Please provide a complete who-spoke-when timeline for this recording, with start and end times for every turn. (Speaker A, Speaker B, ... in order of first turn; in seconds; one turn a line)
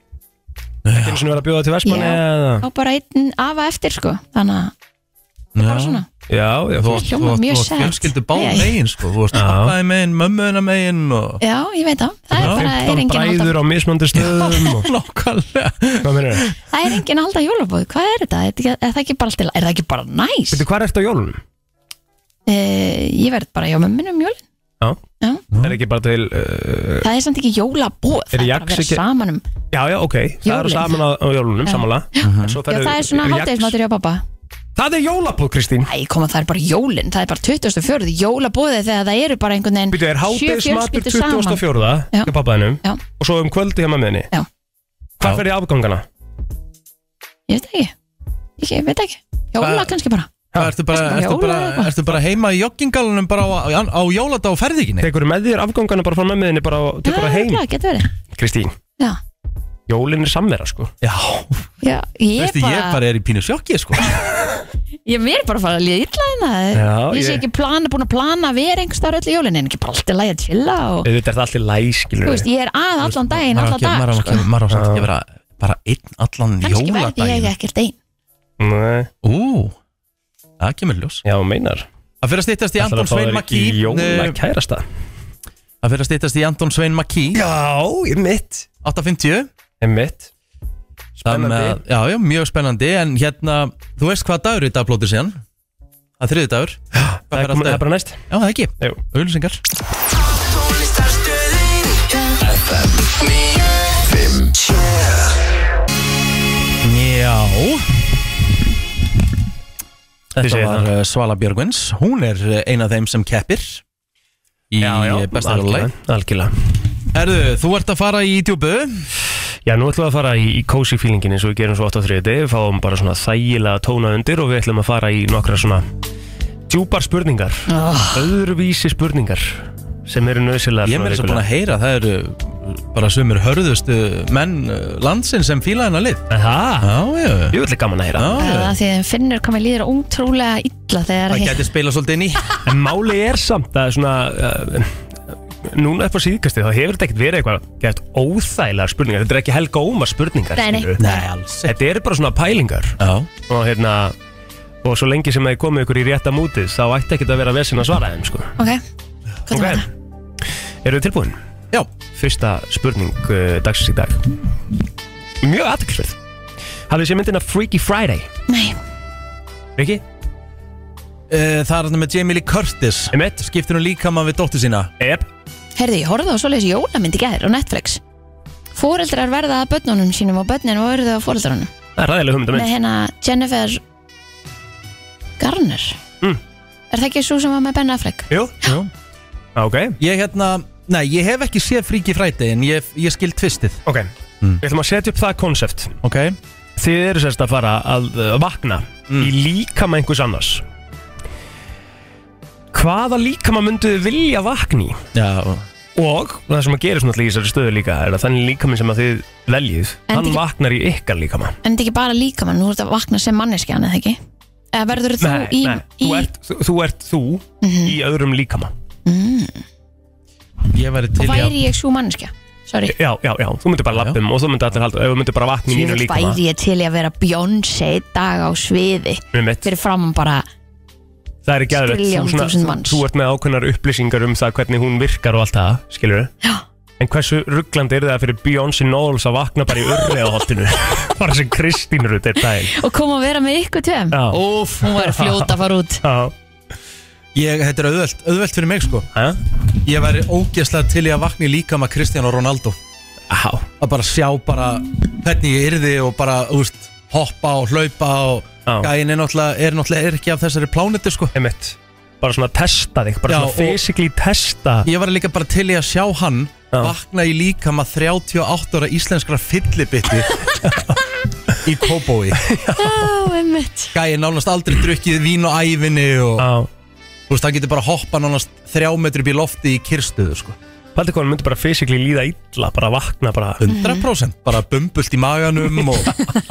Speaker A: 0.8-1.3
Speaker B: 1.0-2.6
Speaker C: 1.9-4.7
Speaker A: 5.5-6.0
Speaker C: 5.6-6.1
Speaker B: 6.3-7.1
Speaker A: 6.8-11.4
Speaker C: 6.9-8.8
Speaker B: 9.3-9.8
Speaker C: 11.4-13.6
Speaker B: 12.3-14.9
Speaker A: 12.4-12.7
Speaker A: 14.1-16.5
Speaker B: 16.0-16.5
Speaker C: 16.7-20.6
Speaker B: 20.5-21.4
Speaker C: 22.5-24.4
Speaker A: 25.5-25.8
Speaker B: 25.6-27.1
Speaker C: 27.0-29.4
Speaker B: 28.3-29.0
Speaker B: 29.7-33.8
Speaker C: 30.4-31.0
Speaker C: 31.6-34.2
Speaker A: 32.2-32.6
Speaker B: 34.8-35.9
Speaker C: 35.9-42.3
Speaker B: 39.9-44.3
Speaker B: 45.2-46.0
Speaker C: 47.5-47.9
Speaker C: 48.6-50.3
Speaker A: 49.6-49.9
Speaker A: 50.6-55.1
Speaker C: 50.9-51.9
Speaker B: 55.0-57.6
Speaker C: 57.0-58.1
Speaker B: 58.3-58.8
Speaker B: 59.9-60.9
Speaker A: 61.0-61.7
Speaker C: 61.8-63.0
Speaker A: 62.4-64.2
Speaker C: 65.0-71.1
Speaker B: 66.7-67.4
Speaker B: 71.0-72.5
Speaker C: 72.2-74.5
Speaker A: 73.3-77.5
Speaker B: 74.7-75.1
Speaker C: 76.6-78.0
Speaker B: 78.6-79.1
Speaker A: 79.2-79.8
Speaker A: 80.6-81.2
Speaker B: 81.2-81.9
Speaker A: 82.2-84.4
Speaker B: 82.8-84.8
Speaker A: 85.8-87.4
Speaker B: 87.3-88.7
Speaker A: 88.8-89.5
Speaker B: 89.8-90.3
Speaker B: 91.2-91.8
Speaker A: 91.2-95.4
Speaker A: 96.2-99.6
Speaker B: 97.0-98.2
Speaker D: 100.6-105.4
Speaker A: 106.8-107.9
Speaker A: 110.3-113.8
Speaker B: 110.4-110.9
Speaker A: 114.7-115.9
Speaker B: 114.8-116.8
Speaker A: 117.1-119.1
Speaker B: 119.7-125.8
Speaker B: 126.7-131.4
Speaker C: 127.7-128.3
Speaker A: 130.8-136.2
Speaker B: 136.3-137.0
Speaker A: 136.8-137.6
Speaker B: 137.5-138.5
Speaker A: 138.2-138.8
Speaker C: 138.4-141.7
Speaker A: 141.3-142.6
Speaker B: 142.7-145.0
Speaker B: 145.6-151.0
Speaker C: 150.6-151.2
Speaker A: 151.0-151.7
Speaker B: 151.7-154.2
Speaker A: 153.0-153.3
Speaker B: 154.8-158.6
Speaker C: 159.5-159.9
Speaker B: 159.5-159.9
Speaker B: 160.8-161.4
Speaker B: 162.1-164.3
Speaker B: 165.4-166.2
Speaker B: 166.9-168.3
Speaker C: 168.5-168.8
Speaker B: 169.8-170.0
Speaker A: 171.3-174.9
Speaker B: 173.1-173.4
Speaker B: 175.0-175.3
Speaker C: 175.8-178.0
Speaker C: 178.7-181.7
Speaker B: 182.0-182.7
Speaker C: 182.5-183.8
Speaker C: 185.4-186.0
Speaker C: 186.9-188.3
Speaker B: 188.3-188.6
Speaker A: 188.6-188.9
Speaker B: 189.6-190.0
Speaker A: 190.0-193.8
Speaker B: 193.9-195.9
Speaker A: 196.0-196.4
Speaker B: 196.8-200.7
Speaker B: 202.7-205.0
Speaker A: 205.1-205.7
Speaker B: 206.0-211.6
Speaker C: 210.1-210.4
Speaker C: 211.6-214.2
Speaker C: 214.7-216.3
Speaker B: 215.2-218.7
Speaker C: 217.6-217.9
Speaker C: 219.1-219.6
Speaker A: 220.7-221.6
Speaker C: 221.2-222.9
Speaker B: 222.9-226.4
Speaker A: 223.9-224.2
Speaker C: 225.7-230.5
Speaker B: 229.3-229.7
Speaker B: 231.4-236.3
Speaker C: 231.7-233.0
Speaker B: 237.0-242.8
Speaker C: 242.6-246.0
Speaker B: 244.1-245.5
Speaker B: 246.0-246.3
Speaker A: 247.3-249.1
Speaker A: 249.7-252.8
Speaker B: 253.3-253.7
Speaker A: 253.8-261.4
Speaker B: 258.7-258.9
Speaker B: 261.4-264.9
Speaker A: 263.3-263.8
Speaker A: 264.9-270.5
Speaker B: 270.6-271.0
Speaker A: 271.6-272.5
Speaker B: 272.4-273.1
Speaker C: 272.8-273.9
Speaker A: 273.9-276.5
Speaker B: 276.4-276.7
Speaker A: 277.3-280.6
Speaker B: 280.9-283.6
Speaker A: 283.6-286.2
Speaker C: 283.7-284.1